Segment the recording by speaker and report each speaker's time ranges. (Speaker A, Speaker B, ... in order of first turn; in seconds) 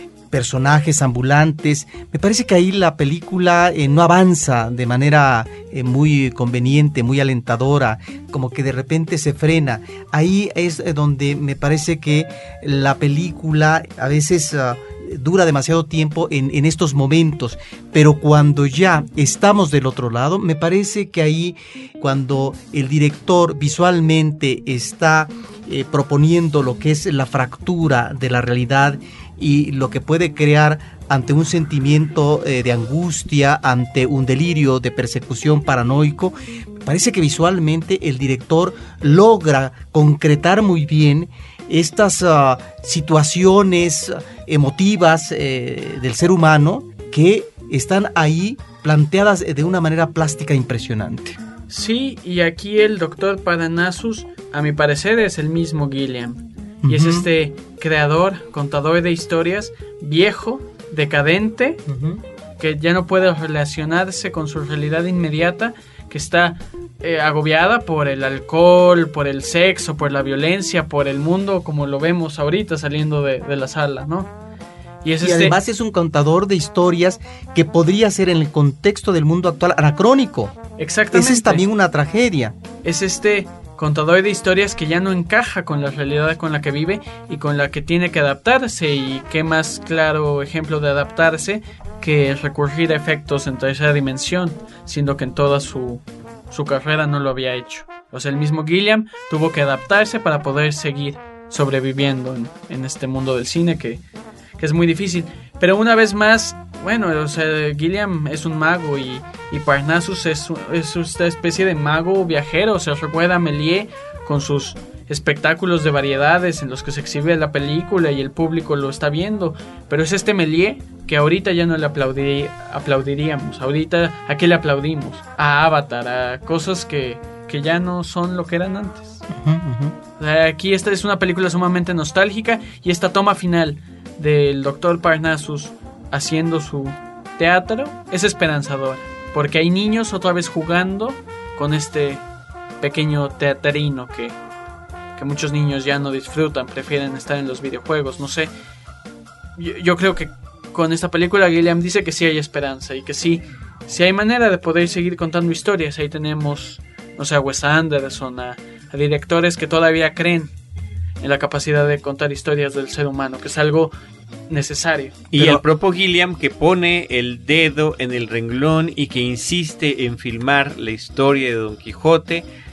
Speaker A: 0.3-51.4, 56.8-57.3, 61.9-62.2, 75.2-80.6, 81.1-82.6, 129.3-129.9
Speaker B: 51.7-61.8, 62.6-74.3, 75.0-75.6, 80.8-81.7, 82.8-104.0, 104.6-129.2, 130.2-142.2, 142.8-144.3, 145.2-148.5, 149.6-160.5, 161.2-163.9, 164.5-165.3
Speaker C: 165.3-172.4